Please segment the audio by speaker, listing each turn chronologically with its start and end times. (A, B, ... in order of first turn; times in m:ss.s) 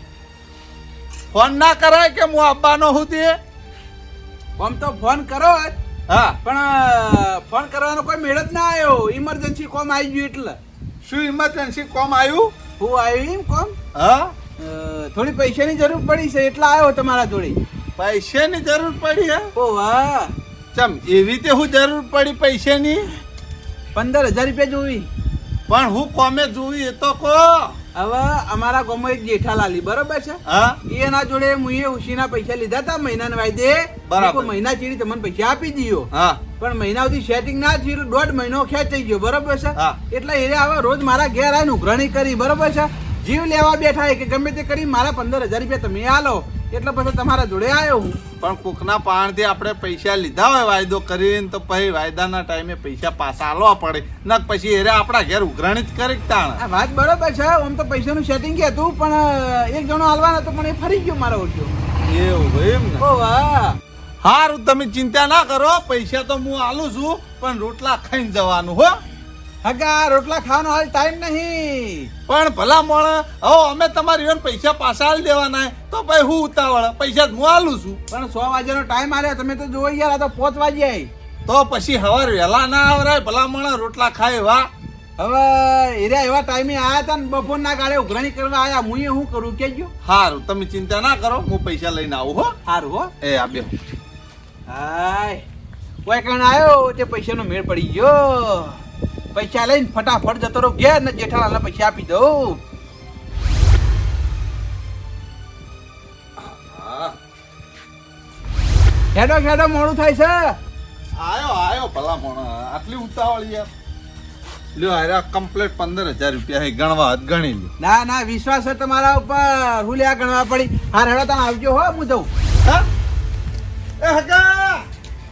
0:01.3-0:03.4 A
0:04.6-0:05.7 B
0:06.1-0:06.4 A
0:06.4-0:10.6 B
0:11.0-0:12.5 A
0:12.8-0:13.8 B
0:13.9-0:14.3 A
0:14.6-0:17.6 B
0:18.0-0:19.5 A
0:19.5-0:20.3 B
0:20.7-0:23.1 A
0:23.9-0:25.1 B
0:25.7-0:27.7 A
0:28.0-0:48.2 B
0:30.5-0:30.8 A
0:34.1-0:34.5 A
0:36.1-0:36.4 A
0:48.4-0:56.6 A
0:56.6-1:01.7 B
1:02.0-1:03.0 A
1:03.0-1:03.8 B
1:04.2-1:09.0 A
1:09.6-1:12.1 B
1:12.3-1:18.0 A
1:18.1-1:21.1 B
1:21.5-1:24.7 A
1:25.2-1:29.9 B
1:30.0-1:32.5 A
1:32.6-1:33.1 B
1:33.2-1:33.7 A
1:34.7-1:35.4 B
1:36.0-1:38.8 B
1:39.3-1:42.6 B
1:46.4-1:47.2 A
1:49.1-1:50.6 B
1:51.2-1:53.7 A
1:54.7-1:57.7 A
1:57.8-2:02.3 B
2:04.0-2:04.8 A